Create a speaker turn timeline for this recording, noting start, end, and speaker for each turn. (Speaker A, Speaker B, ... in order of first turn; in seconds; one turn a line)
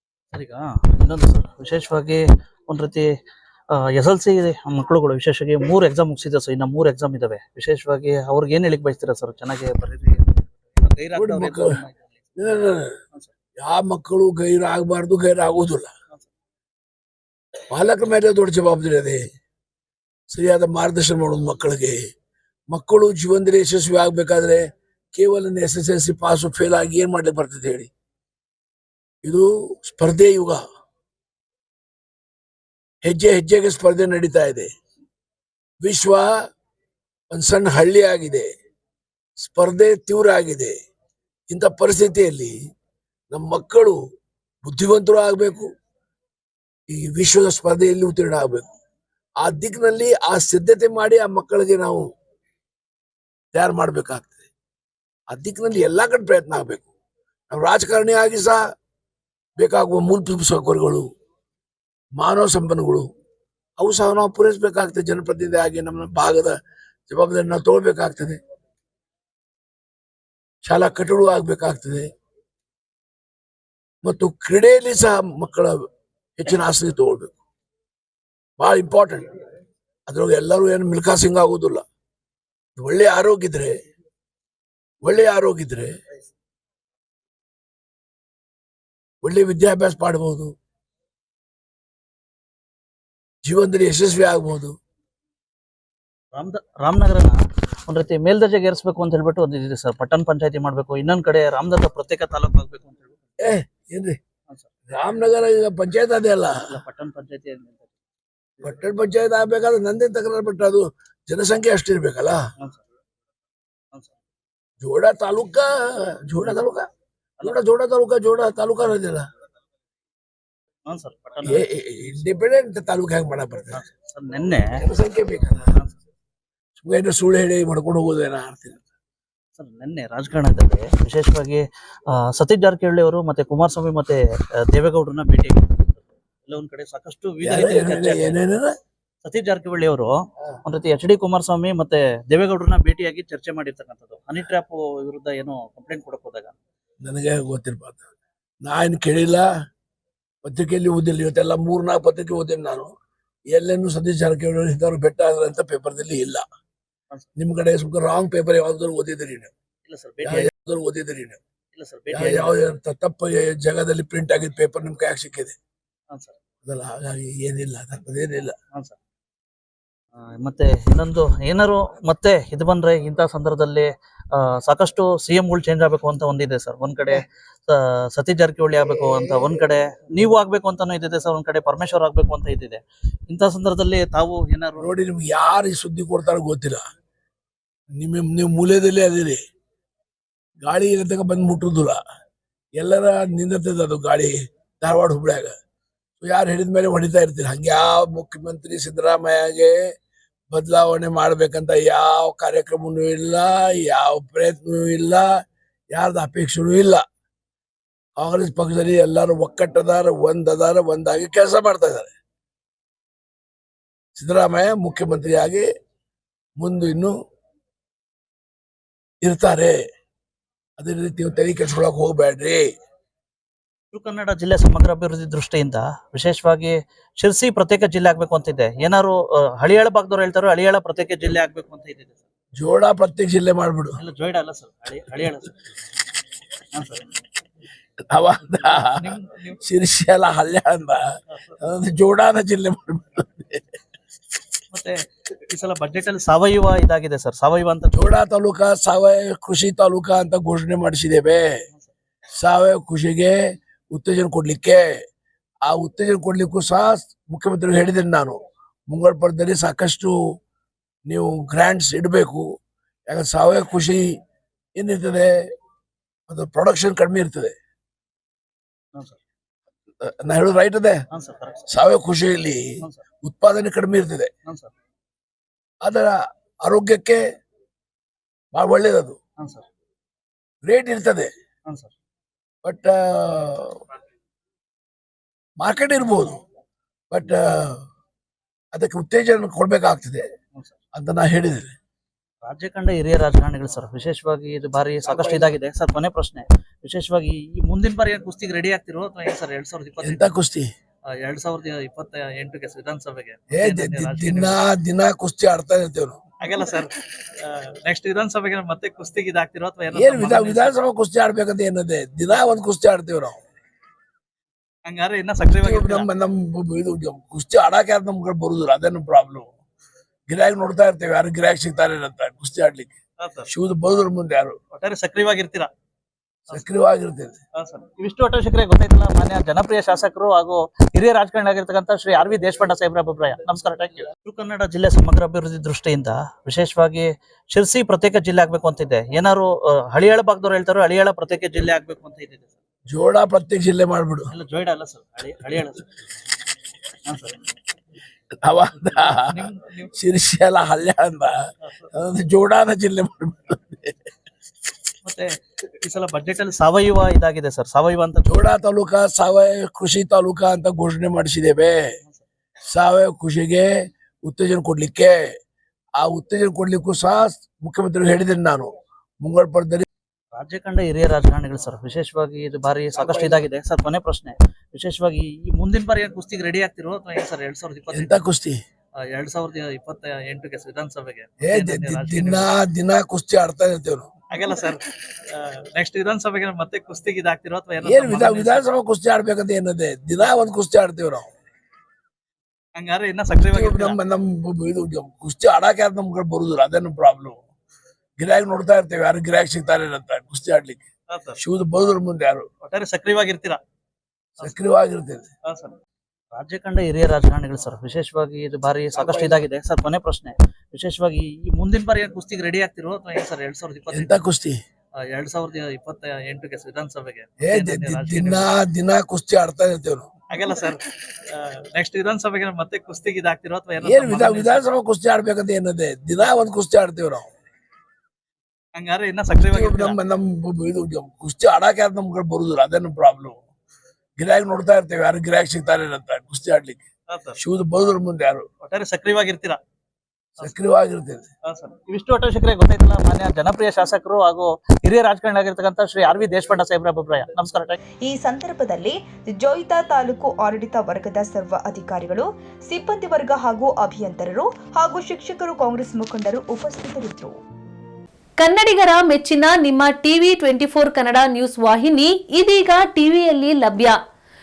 Speaker A: 0.3-3.1
Speaker A: 3.7-12.4
Speaker B: 11.1-11.8
Speaker B: 12.4-12.9
Speaker B: 13.6-15.9
Speaker B: 17.7-19.2
Speaker B: 20.3-22.0
Speaker B: 22.7-24.6
Speaker B: 25.1-27.9
Speaker B: 29.2-30.6
Speaker B: 33.0-34.7
Speaker B: 35.8-36.3
Speaker B: 37.3-38.5
Speaker B: 39.4-40.7
Speaker B: 41.5-42.5
Speaker B: 43.3-44.0
Speaker B: 44.6-45.7
Speaker B: 46.9-48.7
Speaker B: 49.4-52.0
Speaker B: 53.5-54.4
Speaker B: 55.3-56.9
Speaker B: 57.5-58.6
Speaker B: 59.6-61.0
Speaker B: 62.2-63.0
Speaker B: 63.8-66.5
Speaker B: 67.1-68.4
Speaker B: 70.6-72.1
Speaker B: 74.0-75.8
Speaker B: 76.4-77.3
Speaker B: 78.6-79.3
Speaker B: 80.1-81.8
Speaker B: 82.8-83.7
Speaker B: 85.0-85.9
Speaker B: 89.2-90.5
Speaker B: 93.4-94.7
Speaker A: 96.3-103.2
Speaker B: 103.4-104.2
Speaker B: 104.9-106.6
Speaker A: 106.7-107.9
Speaker B: 108.6-112.4
Speaker B: 114.8-116.9
Speaker B: 117.4-119.2
Speaker A: 120.8-121.7
Speaker B: 121.4-123.8
Speaker A: 123.7-124.7
Speaker B: 124.8-125.7
Speaker B: 126.8-128.8
Speaker A: 129.6-131.6
Speaker A: 132.1-138.4
Speaker B: 137.4-138.7
Speaker A: 139.2-140.1
Speaker A: 140.6-146.6
Speaker B: 147.0-148.0
Speaker B: 148.6-149.5
Speaker B: 150.4-152.9
Speaker B: 153.5-156.4
Speaker B: 157.3-159.5
Speaker A: 159.8-160.5
Speaker B: 160.2-161.4
Speaker A: 161.7-162.5
Speaker B: 162.1-165.5
Speaker A: 166.1-166.3
Speaker B: 166.6-168.5
Speaker A: 170.4-184.9
Speaker B: 179.0-179.5
Speaker B: 184.8-186.8
Speaker B: 187.9-189.4
Speaker B: 190.6-192.0
Speaker B: 192.8-195.5
Speaker B: 196.2-199.8
Speaker B: 200.5-205.3
Speaker B: 205.9-207.0
Speaker B: 208.2-212.1
Speaker B: 214.2-215.7
Speaker B: 216.6-217.1
Speaker B: 219.2-219.8
Speaker B: 220.8-222.7
Speaker A: 223.9-232.2
Speaker B: 232.6-234.0
Speaker A: 234.0-235.5
Speaker A: 236.7-237.1
Speaker B: 238.1-241.0
Speaker A: 238.5-239.6
Speaker B: 241.6-243.7
Speaker A: 244.7-248.1
Speaker B: 247.9-251.6
Speaker B: 252.4-253.4
Speaker B: 253.9-254.9
Speaker B: 255.6-258.4
Speaker B: 258.9-260.1
Speaker B: 261.1-262.4
Speaker B: 263.1-264.1
Speaker B: 264.8-265.3
Speaker B: 266.3-267.5
Speaker B: 270.0-271.0
Speaker A: 271.1-271.6
Speaker B: 271.7-274.3
Speaker A: 274.4-274.7
Speaker B: 275.8-277.2
Speaker B: 278.5-279.2
Speaker A: 279.4-279.6
Speaker B: 280.6-281.3
Speaker A: 281.7-281.9
Speaker B: 282.6-283.8
Speaker B: 285.6-286.4
Speaker B: 287.1-287.8
Speaker B: 288.7-290.2
Speaker B: 290.9-291.7
Speaker A: 292.4-300.3
Speaker B: 295.0-295.5
Speaker B: 300.0-300.7
Speaker A: 301.1-304.6
Speaker B: 303.5-306.2
Speaker A: 306.4-310.8
Speaker B: 309.9-313.4
Speaker A: 314.9-316.1
Speaker B: 315.4-319.5
Speaker B: 320.3-322.9
Speaker A: 323.2-323.5
Speaker B: 323.5-324.6
Speaker A: 324.7-325.7
Speaker B: 326.5-327.4
Speaker A: 327.6-342.6
Speaker B: 342.9-344.3
Speaker A: 344.3-345.9
Speaker A: 347.0-347.4
Speaker B: 348.4-351.4
Speaker A: 348.8-349.9
Speaker A: 351.6-351.9
Speaker B: 351.9-354.0
Speaker A: 355.0-355.3
Speaker A: 355.8-358.5
Speaker B: 358.2-361.9
Speaker B: 362.7-365.3
Speaker B: 366.0-369.9
Speaker A: 370.3-378.2
Speaker B: 372.9-373.4
Speaker B: 377.9-378.6
Speaker A: 379.1-382.5
Speaker B: 381.4-384.1
Speaker A: 384.3-388.6
Speaker B: 387.8-391.3
Speaker A: 392.8-394.0
Speaker B: 393.4-397.4
Speaker B: 398.2-400.8
Speaker A: 401.1-401.4
Speaker B: 401.4-402.4
Speaker A: 402.6-403.6
Speaker B: 404.4-405.3
Speaker A: 405.5-405.8
Speaker A: 406.3-414.2
Speaker B: 408.9-409.4
Speaker B: 413.9-414.6
Speaker A: 415.1-418.5
Speaker B: 417.4-420.1
Speaker A: 420.3-424.6
Speaker B: 423.8-427.3
Speaker A: 428.8-430.0
Speaker B: 429.4-433.4
Speaker B: 434.2-436.8
Speaker A: 437.1-437.4
Speaker B: 437.4-438.4
Speaker A: 438.6-439.6
Speaker B: 440.4-441.3
Speaker A: 441.5-447.8
Speaker C: 448.0-457.3
Speaker D: 458.4-464.0